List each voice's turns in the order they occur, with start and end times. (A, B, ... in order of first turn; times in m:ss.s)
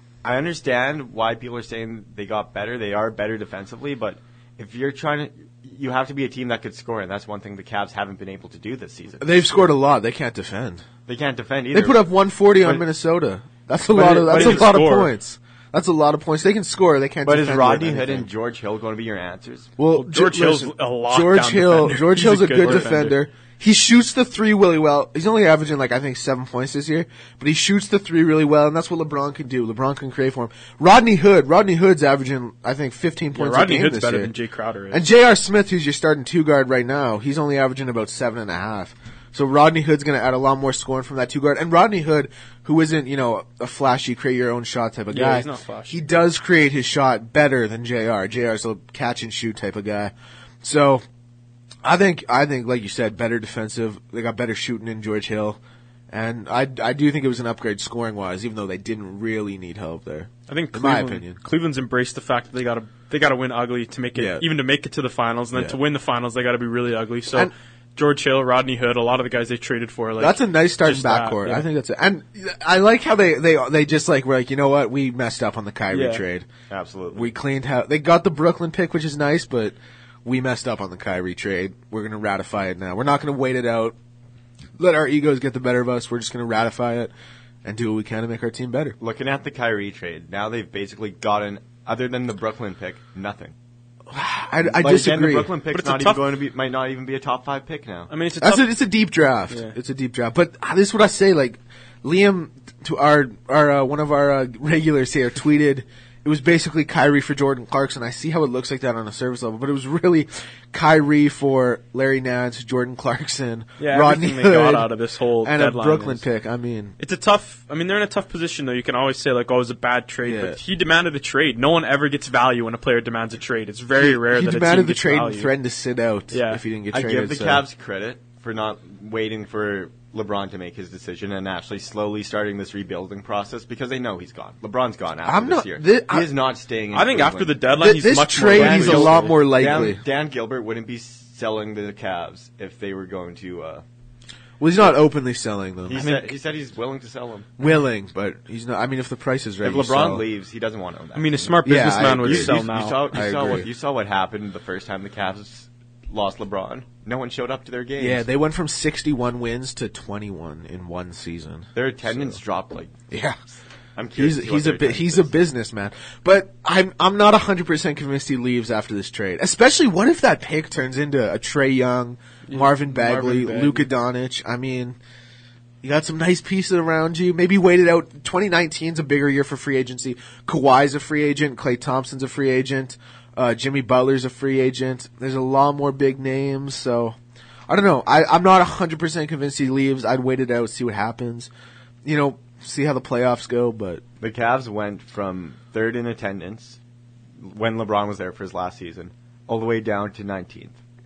0:00.2-0:09.7 A
0:09.2-0:10.8 B
0:11.1-0:12.1 A
0:11.7-0:18.3 B
0:13.9-0:14.8 A
0:14.0-0:15.1 C
0:17.2-0:19.7 A
0:19.8-0:34.3 B
0:20.0-0:23.2 C
0:33.3-0:35.0 C
0:34.9-0:51.0 B
0:45.1-0:46.0 C
0:51.8-0:55.6 B
0:56.1-1:01.4 B
1:00.5-1:11.7 C
1:04.2-1:04.4 B
1:10.2-1:16.5 B
1:15.9-1:16.2 C
1:16.7-1:17.3 A
1:17.1-1:24.0 B
1:24.8-1:27.1 B
1:27.6-1:29.0 B
1:29.0-1:33.5 A
1:34.1-1:35.5 B
1:34.6-1:38.1 A
1:35.7-1:36.3 C
1:38.1-1:38.8 C
1:38.4-1:54.9 B
1:39.5-1:39.8 C
1:53.8-1:56.2 C
1:55.4-1:57.0 B
1:57.0-2:05.5 C
2:00.3-2:00.6 B
2:04.0-2:07.6 B
2:06.3-2:06.6 C
2:06.9-2:17.7 A
2:15.3-2:16.3 B
2:16.9-2:19.5 C
2:17.7-2:20.0 B
2:18.4-2:23.8 A
2:24.6-2:26.0 B
2:25.9-2:27.5 A
2:26.0-2:26.3 C
2:27.6-2:30.2 B
2:29.6-2:38.2 A
2:31.2-2:33.3 C
2:31.6-2:33.7 B
2:38.0-2:42.4 B
2:41.8-2:42.9 A
2:43.1-2:43.4 B
2:44.0-2:45.3 A
2:44.2-2:55.0 B
2:52.5-2:53.9 C
2:55.8-3:07.2 B
3:07.7-3:11.5 B
3:12.0-3:14.0 B
3:14.2-3:16.8 A
3:17.4-3:20.8 A